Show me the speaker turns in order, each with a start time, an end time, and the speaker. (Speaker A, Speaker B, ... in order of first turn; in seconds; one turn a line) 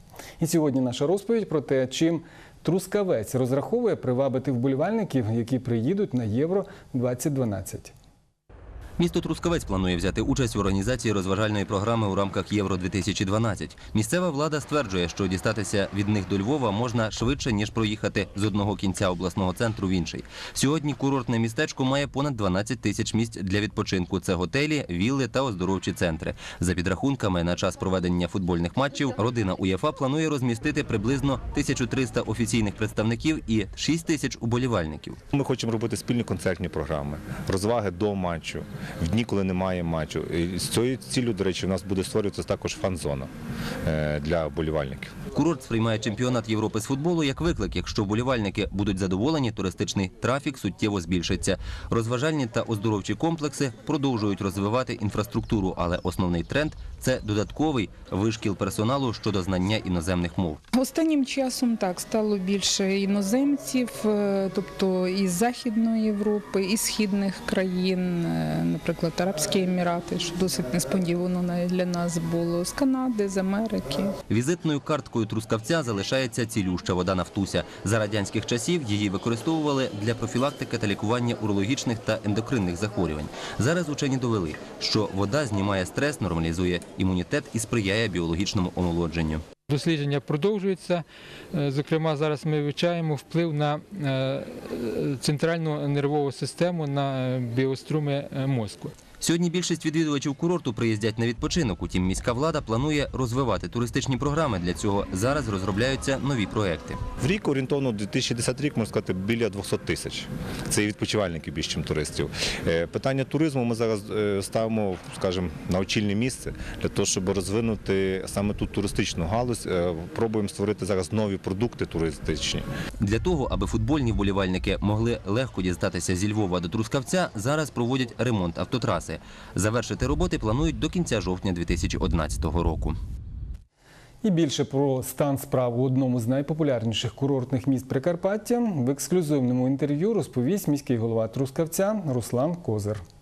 Speaker A: 0.4-7.9
Speaker B: 9.0-35.2
Speaker C: 35.3-43.3
Speaker C: 43.8-45.1
Speaker B: 45.3-60.6
Speaker D: 60.7-74.1
Speaker B: 74.3-89.4
Speaker E: 89.7-98.9
Speaker B: 99.2-107.0
Speaker C: 107.2-122.7
Speaker B: 123.0-132.9
Speaker A: 134.2-143.0